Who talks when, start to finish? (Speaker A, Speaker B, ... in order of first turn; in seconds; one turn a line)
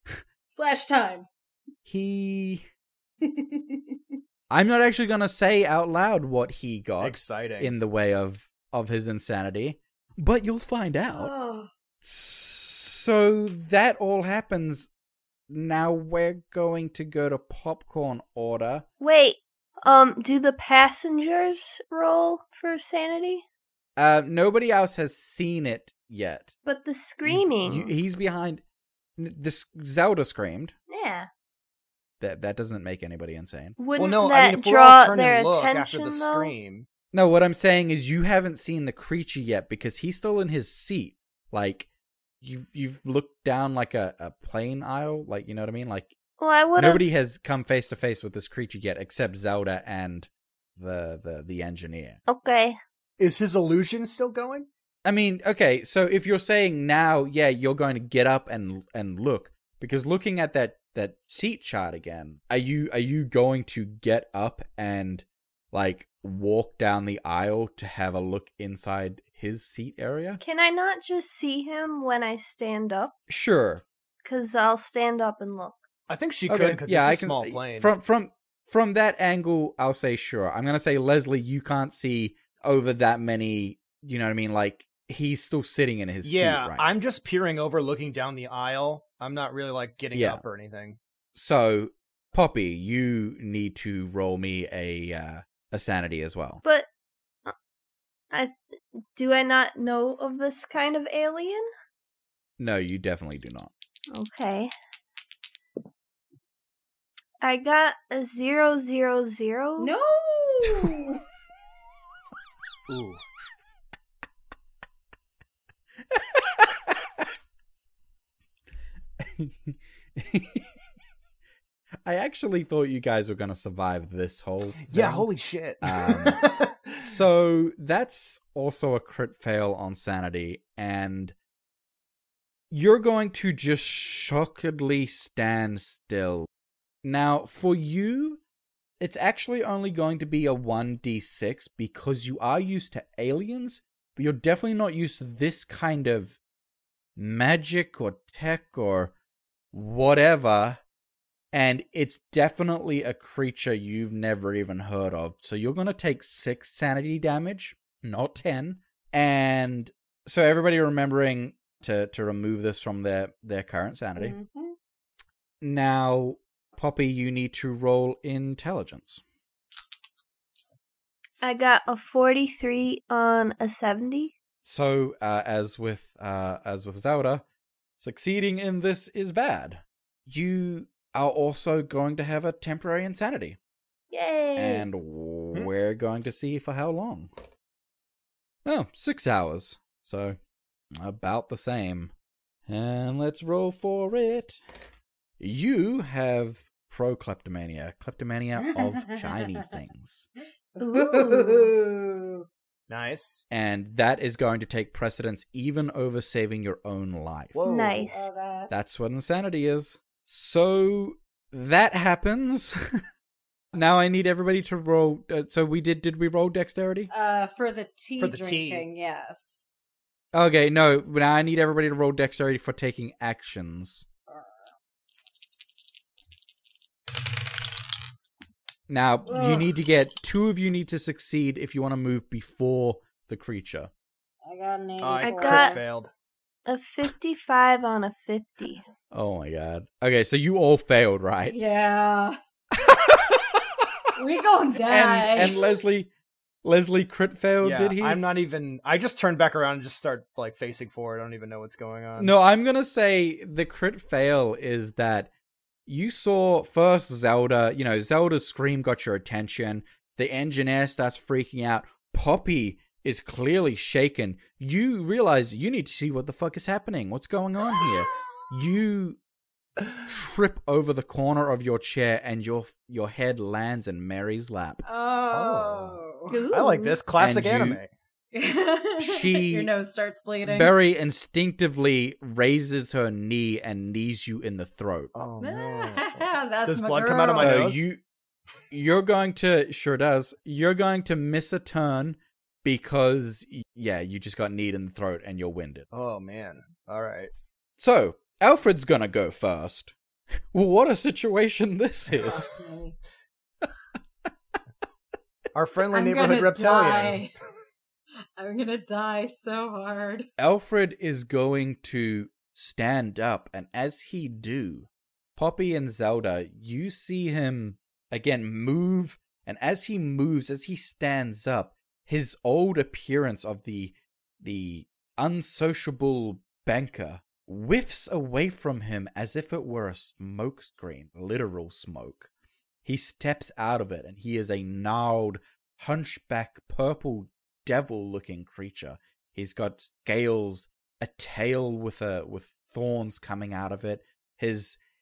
Speaker A: 0.5-1.3
Speaker B: 1.9-2.6
Speaker A: 3.2-4.0
Speaker B: 4.5-11.3
Speaker C: 7.0-7.7
Speaker A: 11.1-11.7
Speaker B: 12.0-14.9
Speaker B: 15.5-18.9
Speaker D: 19.0-23.4
Speaker B: 24.0-26.6
Speaker D: 26.6-27.9
Speaker B: 27.3-28.6
Speaker B: 29.2-30.7
Speaker D: 30.9-31.3
Speaker B: 32.2-33.8
Speaker D: 33.8-36.5
Speaker C: 34.0-36.9
Speaker B: 37.1-41.9
Speaker B: 42.4-46.1
Speaker D: 46.4-47.1
Speaker B: 46.8-52.2
Speaker D: 52.3-52.8
Speaker C: 53.2-54.7
Speaker B: 55.0-70.4
Speaker D: 70.4-73.1
Speaker B: 73.3-73.8
Speaker D: 74.2-75.8
Speaker C: 76.1-77.9
Speaker B: 76.5-86.9
Speaker C: 86.2-91.0
Speaker B: 90.1-90.4
Speaker B: 91.3-96.6
Speaker D: 99.1-101.7
Speaker B: 102.6-103.7
Speaker D: 104.1-104.7
Speaker D: 107.4-109.9
Speaker A: 109.8-111.2
Speaker C: 112.9-113.2
Speaker B: 116.1-117.2
Speaker B: 119.2-120.7
Speaker B: 122.0-125.3
Speaker C: 124.8-127.1
Speaker B: 125.8-131.3
Speaker B: 132.7-136.5
Speaker B: 137.0-138.4
Speaker B: 139.0-146.4
Speaker B: 147.2-149.1
Speaker B: 149.7-150.8
Speaker B: 151.5-164.4
Speaker A: 164.2-164.8
Speaker B: 165.6-169.2
Speaker D: 171.4-174.3
Speaker B: 174.6-177.4
Speaker B: 178.0-183.6
Speaker D: 184.1-184.9
Speaker B: 184.6-187.3
Speaker B: 188.6-190.4
Speaker B: 190.9-192.1
Speaker B: 192.7-194.6
Speaker B: 195.4-200.3
Speaker A: 198.6-199.4
Speaker A: 200.8-202.4
Speaker D: 200.8-201.7
Speaker C: 202.9-203.4
Speaker B: 203.5-207.6
Speaker C: 207.6-208.1
Speaker D: 207.7-208.3
Speaker A: 208.1-208.8
Speaker B: 208.7-212.8
Speaker B: 213.7-217.1
Speaker A: 217.1-219.8
Speaker C: 218.2-218.9
Speaker B: 220.3-224.1
Speaker A: 224.3-224.7
Speaker B: 228.9-233.9
Speaker A: 229.3-229.7
Speaker A: 234.4-235.8
Speaker C: 235.0-236.1
Speaker D: 235.2-235.8
Speaker D: 236.7-238.8
Speaker B: 239.1-241.6
Speaker A: 241.5-242.4
Speaker B: 242.8-243.6
Speaker A: 244.2-245.6
Speaker B: 244.8-246.1
Speaker B: 246.6-248.2
Speaker C: 247.6-252.3
Speaker B: 252.2-255.3
Speaker B: 255.9-269.2
Speaker B: 270.1-274.8
Speaker A: 274.8-276.4
Speaker C: 275.3-277.9
Speaker D: 276.3-277.0
Speaker B: 277.2-277.8
Speaker A: 278.3-280.8
Speaker B: 279.0-279.7
Speaker B: 280.4-285.1
Speaker C: 285.1-287.8
Speaker A: 285.4-287.6
Speaker B: 287.3-288.0
Speaker B: 288.7-295.9
Speaker C: 295.9-297.3
Speaker B: 297.8-299.9
Speaker B: 300.5-302.5
Speaker A: 302.4-302.9
Speaker C: 305.5-307.2
Speaker A: 305.9-307.3
Speaker A: 308.4-310.3
Speaker B: 310.4-332.3
Speaker B: 332.9-344.8